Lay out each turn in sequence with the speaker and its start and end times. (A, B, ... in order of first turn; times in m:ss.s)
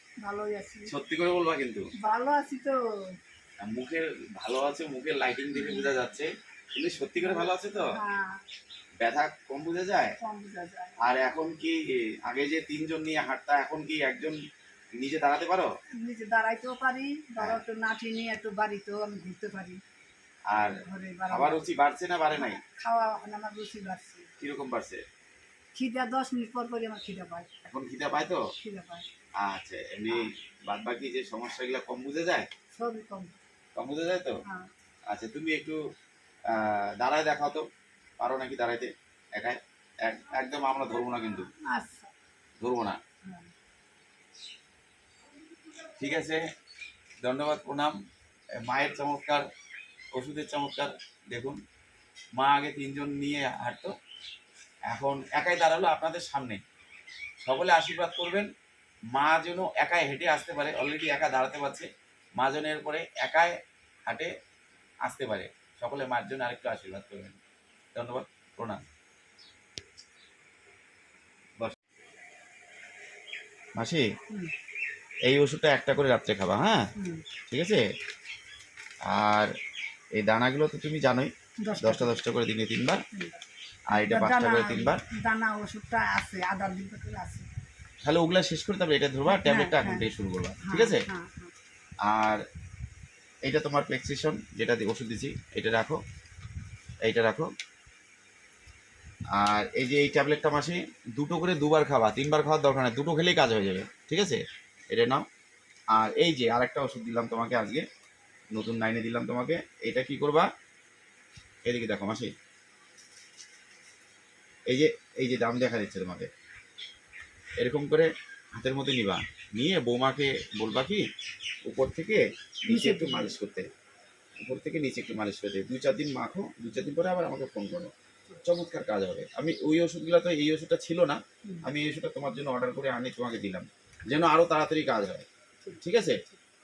0:00.2-0:00.9 A
0:00.9-0:01.9 B
0:02.0-0:02.8 A
0:03.6-0:07.9 B
0:05.5-0:05.9 A
0:07.2-0:08.4 A
0:09.0-0:10.2 B
0:10.2-0:11.0 A
0:11.0-0:14.4 B
0:15.0-0:15.7 B
0:16.0-0:19.8 A
0:20.5-0:20.8 B
0:20.6-0:21.7 A
0:21.3-0:22.6 B
0:22.4-0:24.3 A
0:24.4-0:25.0 B
0:25.7-0:27.5 A
0:27.6-0:28.4 B
0:28.6-0:29.1 A
0:29.4-0:32.5 B
0:32.7-0:33.4 A
0:33.8-0:34.4 B
0:35.1-0:35.8 B
0:36.5-0:37.6 B
0:38.2-0:41.5 B
0:41.6-0:42.1 A
0:42.6-0:43.0 B
0:46.0-0:46.4 B
0:47.2-0:48.0 B
0:48.6-0:49.4 B
0:50.2-0:51.6 B
0:52.4-0:53.9 B
0:54.9-0:56.6 B
0:57.4-0:58.5 B
0:59.1-1:01.9 B
1:02.4-1:03.5 B
1:05.0-1:07.4 B
1:07.9-1:08.8 B
1:13.8-1:14.0 B
1:15.3-1:16.8 B
1:17.0-1:17.2 A
1:17.5-1:17.8 B
1:19.1-1:19.5 B
1:20.2-1:21.3 B
1:21.6-1:22.2 A
1:21.8-1:23.0 B
1:23.1-1:23.4 A
1:23.9-1:25.0 B
1:23.9-1:27.5 A
1:28.0-1:31.0 B
1:29.3-1:30.1 A
1:30.6-1:31.5 A
1:32.0-1:32.4 B
1:33.4-1:36.0 B
1:37.0-1:37.5 B
1:39.3-1:45.2 B
1:45.9-1:47.8 B
1:48.5-1:50.5 B
1:51.7-1:52.3 B
1:54.7-1:56.3 B
1:57.6-2:01.1 B
2:01.7-2:03.7 B
2:02.7-2:03.3 A
2:04.4-2:07.9 B
2:08.4-2:15.2 B
2:15.6-2:16.4 A
2:15.8-2:16.2 B